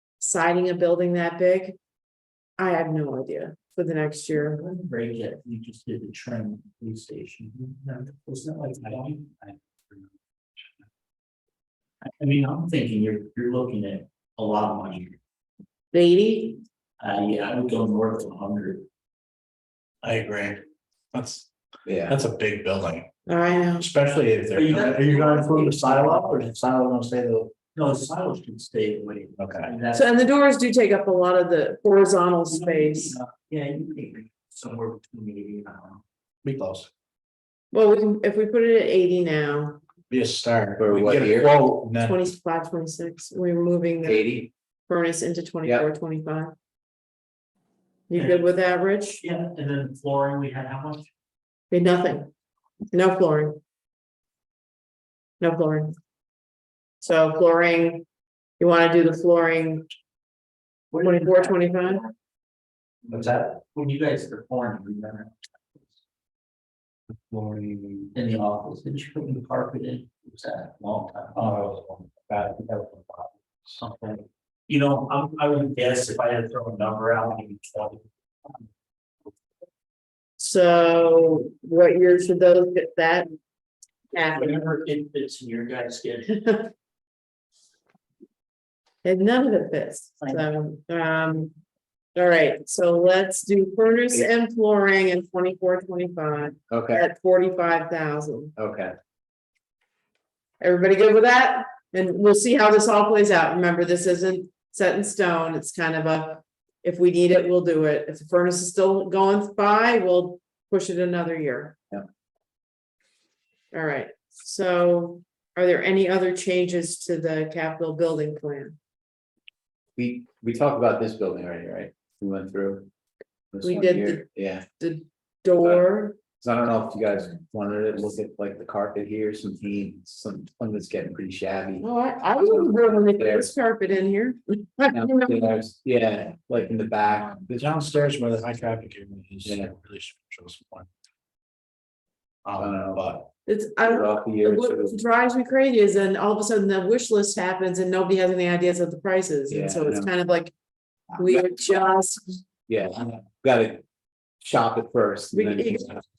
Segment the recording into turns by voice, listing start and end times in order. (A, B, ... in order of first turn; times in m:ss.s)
0:00.2-0:01.8 A
0:02.6-0:04.6 A
0:04.4-0:10.0 B
0:12.0-0:15.2 B
0:15.9-0:16.6 A
0:17.0-0:18.9 B
0:20.0-0:21.5 C
0:21.9-0:22.2 D
0:22.1-0:23.1 C
0:23.3-0:23.9 A
0:23.8-0:27.5 C
0:24.5-0:26.6 B
0:27.8-0:30.1 B
0:29.4-0:29.7 C
0:29.9-0:33.2 A
0:32.5-0:36.0 B
0:36.4-0:36.9 C
0:37.7-0:39.8 A
0:40.1-0:42.2 C
0:40.8-0:41.6 D
0:42.0-0:44.2 A
0:44.0-0:44.5 D
0:44.9-0:46.5 A
0:48.1-0:49.2 A
0:49.2-0:51.1 B
0:51.7-0:52.3 A
0:52.9-0:53.6 A
0:55.4-0:55.9 A
0:57.0-0:58.0 A
0:58.6-0:59.9 A
1:00.9-1:02.1 B
1:01.0-1:02.0 A
1:03.1-1:05.9 B
1:07.3-1:08.1 C
1:08.1-1:11.6 B
1:11.4-1:13.7 C
1:13.8-1:18.6 B
1:20.4-1:23.3 A
1:24.1-1:24.5 A
1:24.3-1:26.4 B
1:26.3-1:26.7 A
1:29.0-1:31.5 A
1:32.2-1:38.5 A
1:36.7-1:37.0 D
1:38.6-1:38.9 D
1:40.6-1:51.8 A
1:53.7-1:58.8 A
2:00.0-2:02.9 D
2:03.5-2:04.6 D
2:03.6-2:04.3 A
2:04.8-2:06.2 A
2:06.4-2:13.5 D
2:11.8-2:15.4 A
2:14.9-2:17.8 D
2:17.5-2:20.9 C
2:19.4-2:19.7 D
2:22.4-2:23.3 C
2:22.6-2:23.2 D
2:23.5-2:30.5 A
2:23.8-2:25.0 D
2:29.5-2:30.1 D
2:31.2-2:32.4 A
2:31.2-2:31.6 D
2:32.7-2:33.8 D
2:34.4-2:36.0 D
2:35.3-2:35.9 A